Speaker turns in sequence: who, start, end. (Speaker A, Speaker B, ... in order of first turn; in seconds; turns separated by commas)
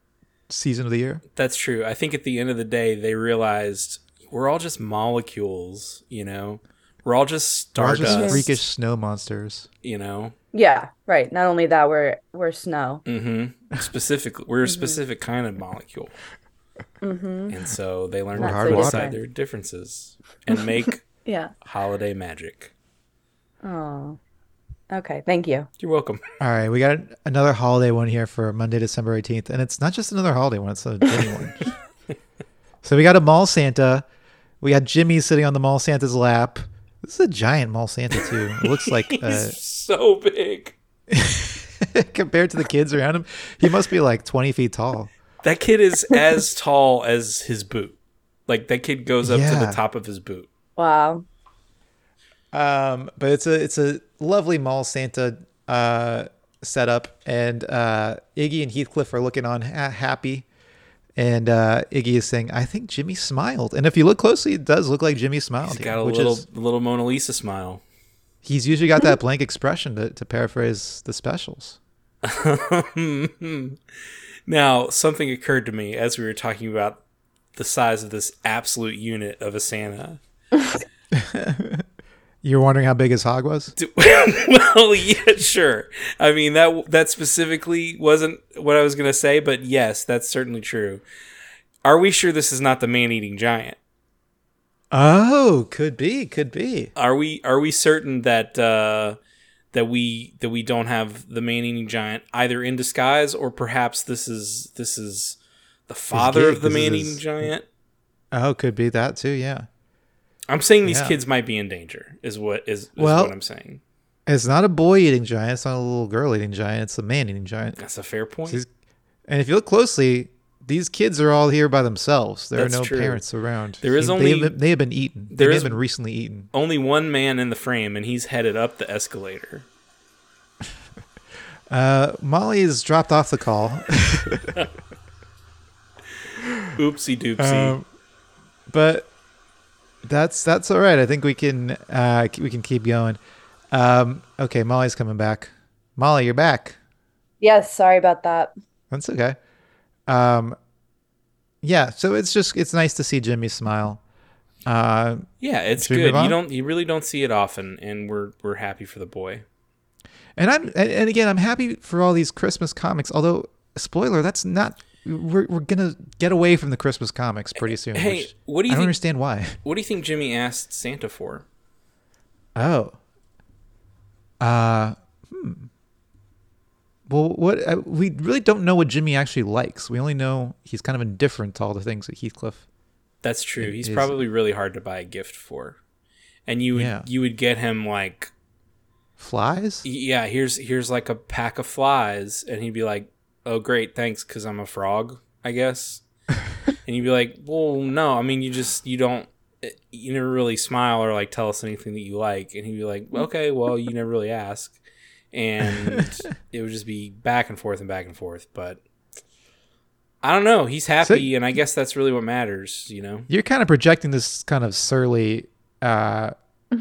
Speaker A: 0.5-1.2, Speaker B: 1.3-8.6, Speaker A: 7.8-9.7, Speaker C: 8.0-8.4, Speaker B: 9.8-10.3, Speaker C: 10.5-13.0, Speaker B: 13.1-16.1, Speaker C: 14.7-15.0, Speaker C: 17.0-17.6, Speaker B: 17.5-21.0, Speaker A: 18.3-19.1, Speaker C: 18.4-19.2, Speaker C: 21.2-21.5, Speaker B: 21.6-22.7, Speaker C: 23.6-24.2, Speaker C: 24.9-25.7, Speaker B: 25.8-26.2, Speaker A: 26.4-31.7, Speaker A: 32.8-34.0, Speaker A: 34.6-39.5, Speaker B: 38.6-40.7, Speaker A: 41.1-45.1, Speaker B: 45.4-48.0, Speaker B: 48.5-50.5, Speaker A: 49.2-49.8, Speaker C: 50.8-51.2, Speaker A: 52.5-60.5, Speaker A: 61.1-66.4, Speaker B: 65.6-67.8, Speaker A: 68.4-71.8, Speaker B: 72.2-73.8, Speaker B: 74.5-77.0, Speaker B: 77.5-80.2, Speaker A: 81.1-81.8, Speaker A: 82.4-83.7, Speaker B: 83.8-91.0, Speaker B: 91.8-93.8, Speaker A: 94.9-96.9, Speaker B: 97.0-99.2, Speaker B: 99.7-105.4, Speaker B: 105.9-107.6, Speaker A: 106.1-107.5, Speaker A: 108.3-109.7, Speaker B: 110.5-113.8, Speaker A: 110.8-111.2, Speaker A: 113.0-113.3, Speaker A: 114.3-117.8, Speaker B: 117.8-118.6, Speaker A: 119.3-126.5, Speaker B: 122.5-123.2, Speaker B: 123.8-124.5, Speaker B: 125.3-125.8, Speaker B: 126.5-129.7, Speaker A: 131.7-134.6, Speaker B: 136.8-137.8, Speaker A: 137.4-137.8, Speaker A: 138.7-139.1, Speaker A: 140.0-143.2, Speaker A: 143.7-146.8, Speaker C: 147.4-148.5, Speaker A: 148.9-149.4, Speaker A: 150.1-150.6, Speaker A: 151.6-154.0, Speaker A: 154.7-156.4, Speaker B: 155.4-159.4, Speaker A: 160.4-169.6, Speaker B: 167.9-168.9, Speaker B: 169.6-171.4, Speaker A: 172.6-172.9, Speaker A: 174.4-175.7, Speaker A: 177.1-182.6, Speaker B: 183.2-185.8, Speaker A: 183.6-184.2, Speaker B: 186.5-188.3, Speaker A: 186.7-187.1, Speaker A: 189.2-189.8, Speaker B: 189.8-196.0, Speaker B: 196.8-204.8, Speaker B: 205.3-208.8, Speaker B: 210.2-213.3, Speaker A: 211.0-211.3, Speaker A: 213.3-216.3